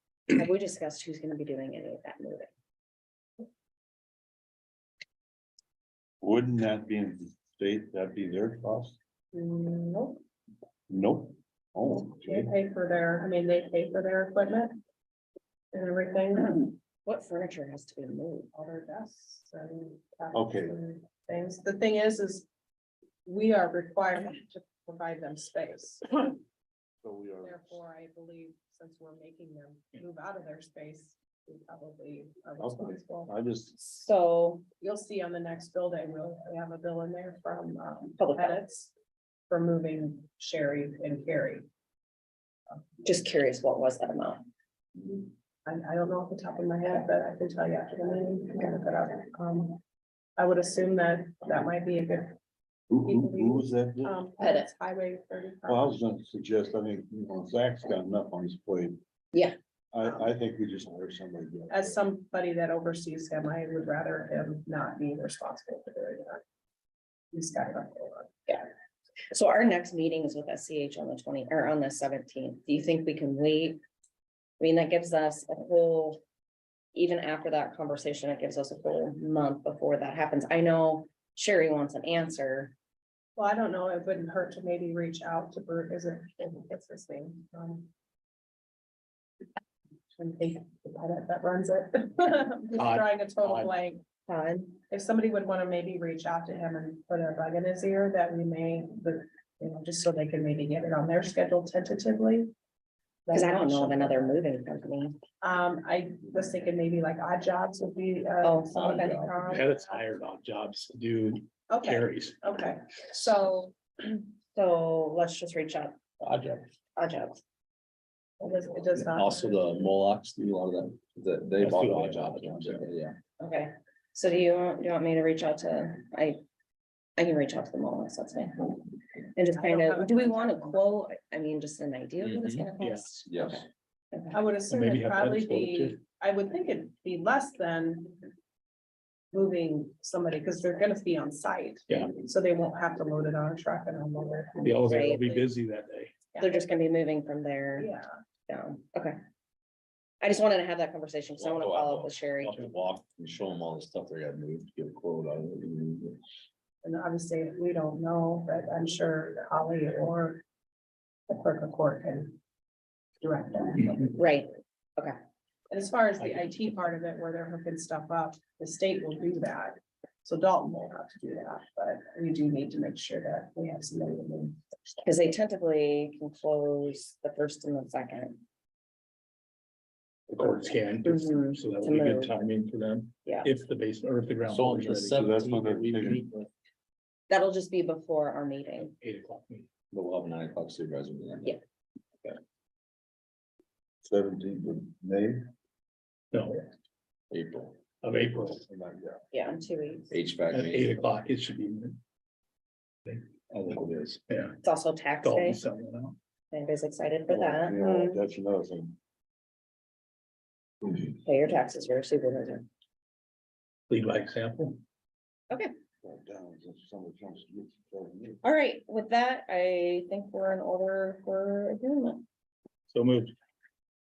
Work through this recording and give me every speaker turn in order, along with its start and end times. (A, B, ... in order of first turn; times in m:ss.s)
0:00.3-0:02.5 A
0:06.2-0:09.0 B
0:09.3-0:10.2 C
0:10.9-0:12.5 B
0:12.2-0:14.7 C
0:15.7-0:16.8 C
0:17.0-0:18.5 A
0:18.5-0:22.5 C
0:20.3-0:20.8 B
0:23.3-0:26.4 C
0:27.0-0:27.8 B
0:27.4-0:33.3 C
0:32.6-0:33.8 B
0:33.8-0:34.6 A
0:34.8-0:38.9 C
0:38.2-0:38.6 A
0:39.5-0:41.7 C
0:43.0-0:44.4 A
0:45.0-0:49.8 C
0:50.4-0:52.4 C
0:52.9-0:54.2 B
0:53.0-0:56.0 C
0:54.4-0:54.7 A
0:55.7-0:59.0 B
0:59.9-1:02.0 B
1:01.7-1:06.4 C
1:07.3-1:08.3 C
1:09.3-1:13.8 A
1:14.6-1:16.2 A
1:17.0-1:22.7 A
1:23.4-1:27.9 C
1:30.1-1:34.0 C
1:32.8-1:33.7 D
1:34.3-1:34.8 A
1:34.9-1:42.5 C
1:43.3-1:44.4 C
1:43.3-1:45.2 A
1:45.4-1:50.0 C
1:48.4-1:49.1 A
1:48.7-1:49.5 E
1:49.4-1:52.4 D
1:51.7-1:53.7 C
1:54.0-1:56.0 A
1:56.2-1:56.7 E
1:57.0-1:57.4 A
1:58.4-1:59.9 C
1:59.0-2:03.2 E
2:01.6-2:02.9 D
2:03.4-2:06.4 A
2:07.2-2:14.4 A
2:09.6-2:10.8 C
2:12.2-2:12.7 E
2:12.8-2:13.1 D
2:13.3-2:13.6 E
2:14.3-2:18.3 C
2:14.7-2:16.0 D
2:19.3-2:25.0 C
2:21.9-2:22.1 D
2:24.6-2:26.2 D
2:24.8-2:25.4 A
2:26.3-2:26.7 C
2:26.4-2:27.9 A
2:27.8-2:28.1 C
2:28.5-2:29.2 A
2:30.2-2:32.6 A
2:31.4-2:36.2 E
2:36.8-2:40.4 C
2:41.3-2:42.4 C
2:43.2-2:44.1 C
2:44.1-2:45.2 A
2:45.7-2:54.6 C
2:46.2-2:46.6 D
2:55.0-2:58.4 A
3:00.3-3:06.5 D
3:01.0-3:02.4 A
3:04.5-3:05.3 E
3:05.1-3:06.2 B
3:07.3-3:08.9 A
3:08.8-3:09.7 D
3:09.9-3:11.5 E
3:14.0-3:15.5 B
3:16.3-3:16.7 D
3:17.3-3:17.8 E
3:18.0-3:18.6 D
3:18.6-3:19.2 B
3:19.3-3:20.2 A
3:20.1-3:20.9 E
3:20.5-3:22.0 D
3:23.1-3:24.6 D
3:24.6-3:25.6 A
3:25.2-3:26.2 D
3:26.5-3:28.2 A
3:27.3-3:29.0 B
3:30.9-3:32.7 A
3:33.9-3:34.8 D
3:36.0-3:38.4 B
3:38.4-3:42.2 A
3:42.9-3:43.3 D